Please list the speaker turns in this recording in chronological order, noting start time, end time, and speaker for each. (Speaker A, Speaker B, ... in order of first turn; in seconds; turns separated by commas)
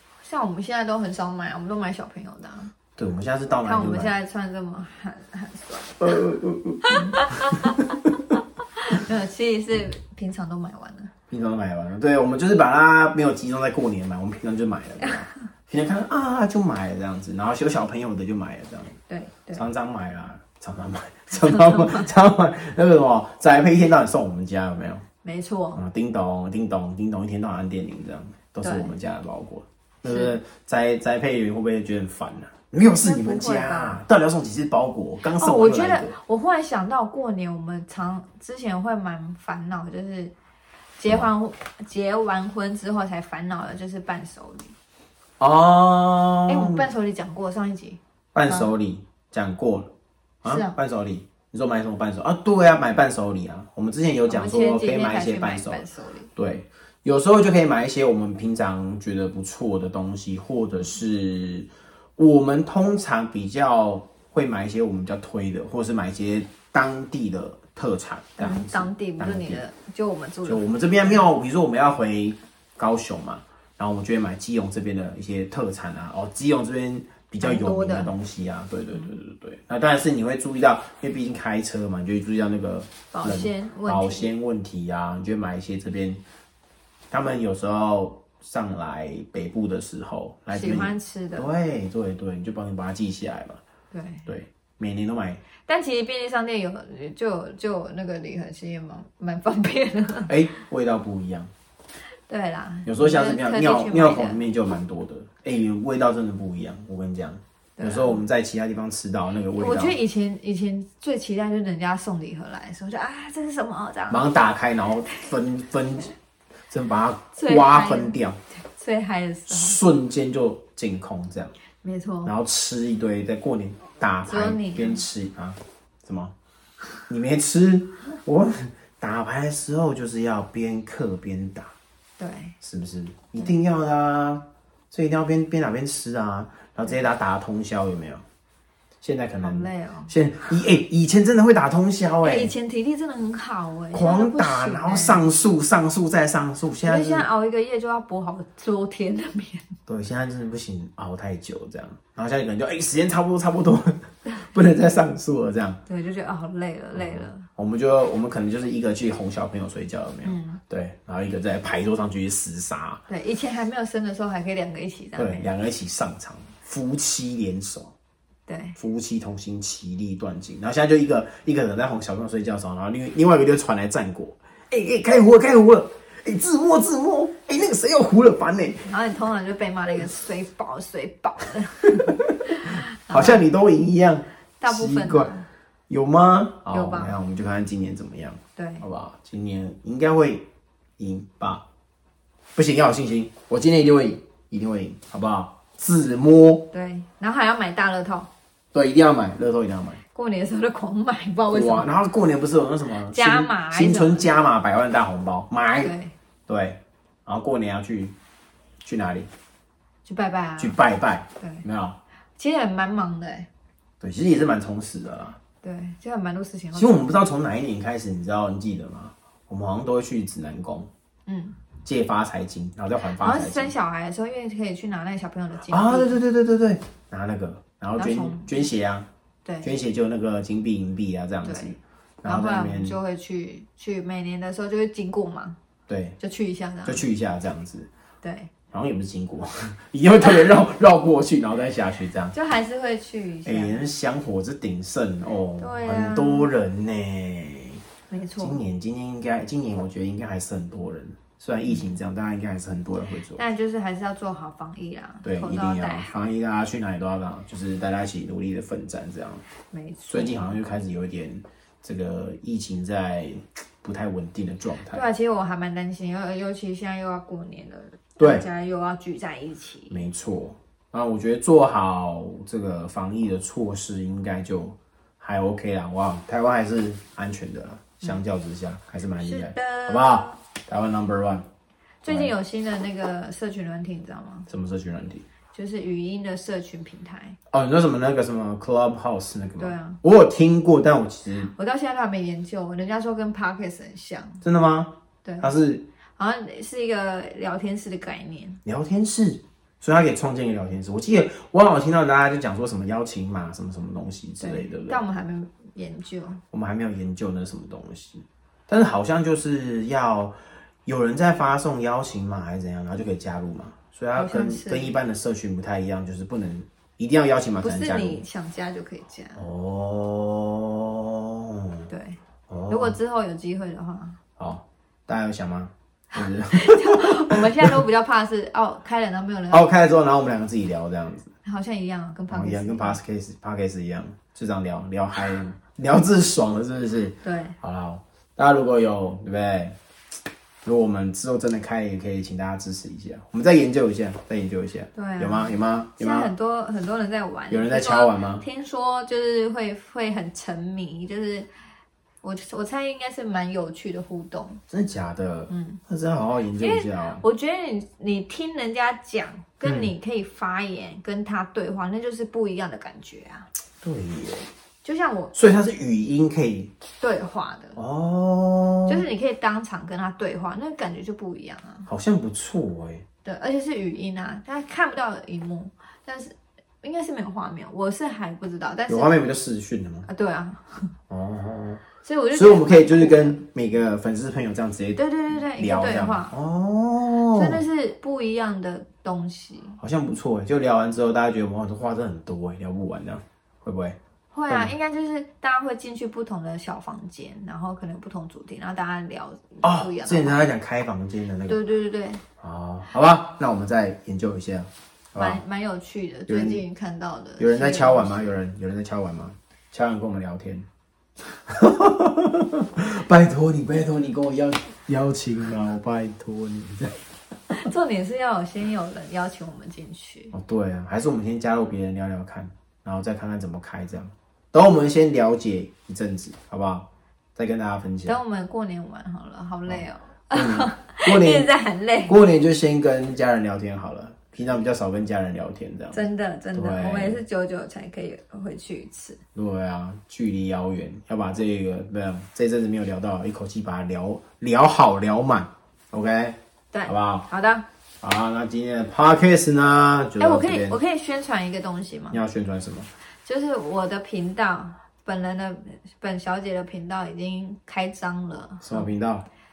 Speaker A: 0.2-2.7, Speaker B: 3.0-4.1, Speaker A: 3.6-6.2, Speaker B: 6.0-8.2, Speaker A: 6.8-11.1, Speaker B: 11.3-19.0, Speaker A: 19.1-19.7, Speaker B: 19.5-25.1, Speaker A: 21.4-22.1, Speaker A: 25.2-25.8, Speaker B: 25.8-36.1, Speaker A: 28.6-28.9, Speaker A: 30.1-30.4, Speaker A: 33.0-34.0, Speaker A: 35.3-40.3, Speaker A: 41.0-44.7, Speaker B: 45.4-46.9, Speaker A: 46.5-48.7, Speaker B: 48.3-69.6, Speaker A: 50.5-50.8, Speaker A: 54.3-56.3, Speaker A: 68.4-71.2, Speaker B: 70.5-86.2, Speaker A: 77.4-78.1, Speaker A: 83.1-84.3, Speaker B: 87.1-93.6, Speaker A: 90.5-91.5, Speaker A: 93.9-94.3, Speaker B: 94.3-95.4, Speaker A: 95.6-100.3, Speaker B: 100.3-101.5, Speaker A: 102.3-104.4, Speaker B: 102.8-110.0, Speaker A: 107.8-108.2, Speaker A: 109.6-114.3, Speaker B: 114.1-116.1, Speaker B: 116.7-118.4, Speaker A: 117.3-119.8, Speaker B: 119.5-121.5, Speaker A: 121.8-122.3, Speaker B: 122.2-126.3, Speaker A: 124.3-125.0, Speaker B: 127.1-131.7, Speaker A: 132.2-132.6, Speaker B: 132.6-138.2, Speaker B: 139.0-142.5, Speaker A: 139.4-140.1, Speaker A: 142.2-145.3, Speaker B: 143.9-147.3, Speaker A: 146.9-149.7, Speaker B: 149.9-155.8, Speaker A: 155.9-157.5, Speaker B: 156.9-163.0, Speaker A: 160.2-160.6, Speaker A: 163.1-165.5, Speaker B: 165.2-167.9, Speaker A: 168.5-168.8, Speaker B: 168.8-178.9, Speaker A: 178.8-183.4, Speaker B: 182.0-185.3, Speaker A: 184.6-185.5, Speaker B: 185.9-191.7, Speaker A: 186.7-187.2, Speaker A: 188.6-188.9, Speaker B: 192.6-196.7, Speaker A: 196.7-198.3, Speaker B: 198.7-200.0, Speaker A: 200.1-202.0, Speaker B: 201.5-205.9, Speaker A: 203.1-204.3, Speaker A: 205.8-206.1, Speaker B: 206.5-208.2, Speaker B: 208.8-209.3, Speaker A: 210.1-210.8, Speaker B: 210.6-212.0, Speaker A: 211.4-211.7, Speaker A: 212.4-213.5, Speaker B: 214.0-215.4, Speaker A: 215.6-217.1, Speaker B: 216.8-220.9, Speaker A: 221.3-221.6, Speaker B: 221.8-223.7, Speaker A: 223.2-226.2, Speaker B: 225.7-229.1, Speaker A: 228.0-228.7, Speaker A: 229.4-229.8, Speaker B: 229.6-233.0, Speaker A: 231.4-235.6, Speaker B: 235.9-236.2, Speaker A: 236.2-237.0, Speaker B: 236.8-237.9, Speaker A: 238.2-238.5, Speaker B: 238.7-242.3, Speaker A: 242.3-243.8, Speaker B: 243.4-247.8, Speaker A: 245.6-246.5, Speaker A: 248.1-248.6, Speaker B: 248.4-253.4, Speaker A: 251.7-251.9, Speaker A: 253.3-256.3, Speaker B: 255.2-259.4, Speaker A: 259.7-260.6, Speaker B: 260.1-265.1, Speaker A: 264.9-270.0, Speaker B: 268.2-268.5, Speaker B: 269.9-281.5, Speaker A: 279.2-280.4, Speaker A: 282.0-284.5, Speaker B: 282.1-282.3, Speaker B: 284.5-285.3, Speaker A: 285.5-287.4, Speaker B: 287.5-291.5, Speaker A: 289.6-290.0, Speaker A: 291.5-294.4, Speaker B: 294.4-295.9, Speaker A: 295.2-295.5, Speaker A: 296.2-298.6, Speaker B: 298.6-305.0, Speaker A: 304.4-306.4, Speaker B: 306.5-318.2, Speaker A: 314.1-315.0, Speaker A: 317.6-319.5, Speaker B: 319.4-321.9, Speaker A: 321.9-324.2, Speaker B: 322.5-323.0, Speaker B: 324.4-327.7, Speaker A: 326.2-329.7, Speaker B: 329.5-331.3, Speaker A: 331.4-333.0, Speaker B: 332.3-339.8, Speaker A: 337.2-337.6, Speaker B: 340.6-346.3, Speaker A: 344.9-351.5, Speaker B: 347.5-348.4, Speaker A: 352.2-354.6, Speaker B: 354.7-357.2, Speaker A: 355.5-355.8, Speaker A: 356.6-363.5, Speaker B: 359.6-359.9, Speaker B: 363.8-364.5, Speaker A: 364.8-365.4, Speaker B: 365.3-366.7, Speaker A: 367.0-367.8, Speaker B: 367.8-369.1, Speaker A: 368.9-371.9, Speaker B: 371.9-373.1, Speaker A: 373.2-379.2, Speaker B: 378.9-380.1, Speaker A: 380.1-380.9, Speaker B: 381.1-387.6, Speaker A: 382.0-383.4, Speaker A: 385.0-386.4, Speaker A: 387.3-389.8, Speaker B: 389.8-394.0, Speaker A: 394.3-400.4, Speaker B: 399.6-401.6, Speaker A: 401.5-402.2, Speaker B: 402.4-405.4, Speaker A: 405.2-408.4, Speaker B: 406.3-406.6, Speaker B: 407.4-410.7, Speaker B: 411.5-417.0, Speaker A: 417.5-420.4, Speaker B: 420.3-428.2, Speaker A: 428.1-432.1, Speaker B: 429.7-431.5, Speaker B: 432.1-437.2, Speaker A: 435.9-439.2, Speaker B: 439.4-447.3, Speaker A: 446.7-447.6, Speaker B: 448.0-450.8, Speaker A: 450.2-452.2, Speaker B: 452.1-452.9, Speaker A: 453.2-458.9, Speaker B: 458.6-459.3